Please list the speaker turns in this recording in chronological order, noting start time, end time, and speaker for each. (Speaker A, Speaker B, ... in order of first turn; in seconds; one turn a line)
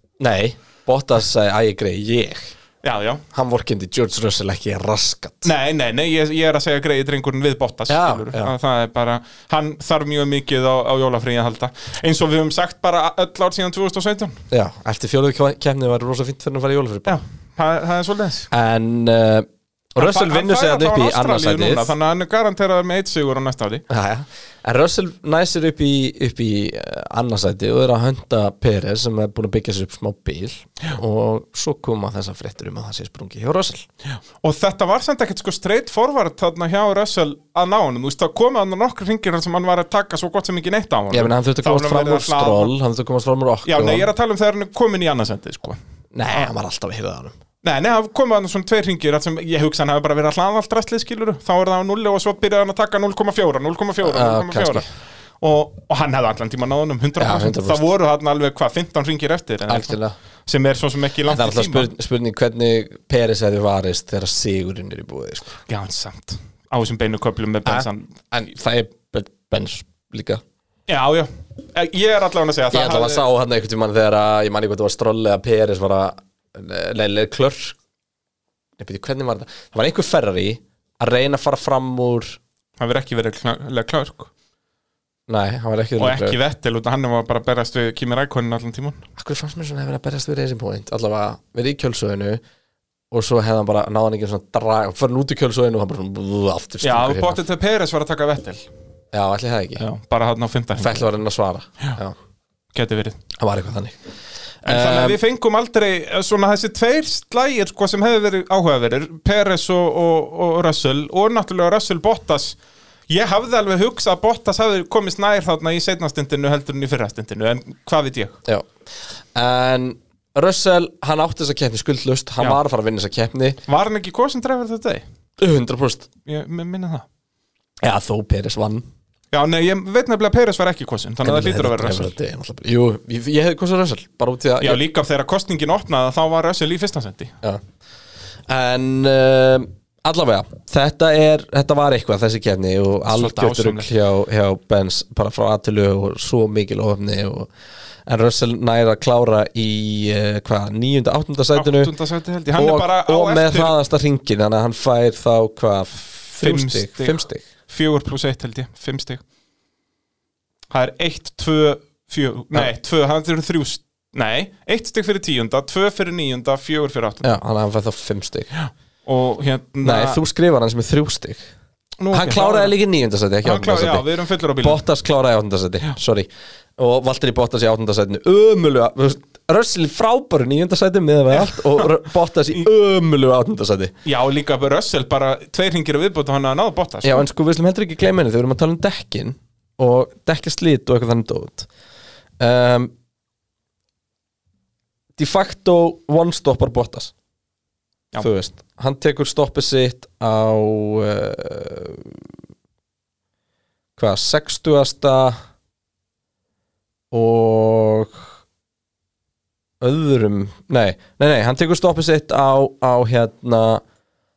Speaker A: 0.2-2.5
Speaker B: 2.8-3.2
Speaker A: 3.3-5.5
Speaker B: 5.4-14.4
Speaker A: 7.9-8.5
Speaker A: 14.5-17.2
Speaker B: 17.1-18.5
Speaker A: 18.5-21.9
Speaker B: 20.0-23.8
Speaker A: 23.9-33.9
Speaker B: 34.4-42.7
Speaker A: 41.1-44.1
Speaker B: 43.6-45.8
Speaker A: 46.1-47.4
Speaker B: 47.6-54.8
Speaker A: 54.0-54.9
Speaker B: 55.4-61.9
Speaker A: 57.2-57.8
Speaker A: 59.7-60.1
Speaker A: 61.3-65.6
Speaker B: 65.7-68.2
Speaker A: 67.7-70.4
Speaker B: 70.9-73.2
Speaker A: 72.7-77.8
Speaker A: 78.8-82.4
Speaker B: 82.8-84.3
Speaker A: 85.3-86.4
Speaker B: 86.0-89.0
Speaker A: 89.2-92.4
Speaker A: 93.1-97.4
Speaker B: 96.8-98.7
Speaker A: 99.1-99.8
Speaker B: 99.8-101.1
Speaker A: 100.8-102.2
Speaker B: 102.7-103.2
Speaker A: 103.4-104.0
Speaker A: 104.7-105.2
Speaker B: 104.7-112.6
Speaker B: 113.1-118.4
Speaker A: 119.3-123.6
Speaker B: 123.7-125.0
Speaker A: 125.4-126.1
Speaker B: 126.3-127.0
Speaker A: 127.8-128.9
Speaker B: 129.3-132.1
Speaker A: 131.2-134.8
Speaker B: 134.6-137.3
Speaker A: 138.5-147.5
Speaker B: 143.1-143.9
Speaker A: 148.1-151.9
Speaker B: 151.5-153.8
Speaker A: 152.5-157.4
Speaker B: 156.4-159.2
Speaker B: 160.7-167.4
Speaker A: 167.2-168.5
Speaker B: 168.6-170.2
Speaker A: 169.8-171.5
Speaker B: 172.0-172.8
Speaker A: 172.1-183.9
Speaker B: 173.4-174.8
Speaker B: 181.3-181.9
Speaker B: 184.1-187.2
Speaker A: 187.0-191.7
Speaker A: 192.4-192.9
Speaker A: 195.2-197.1
Speaker A: 198.2-202.2
Speaker A: 204.0-205.4
Speaker A: 207.1-208.3
Speaker A: 209.8-213.8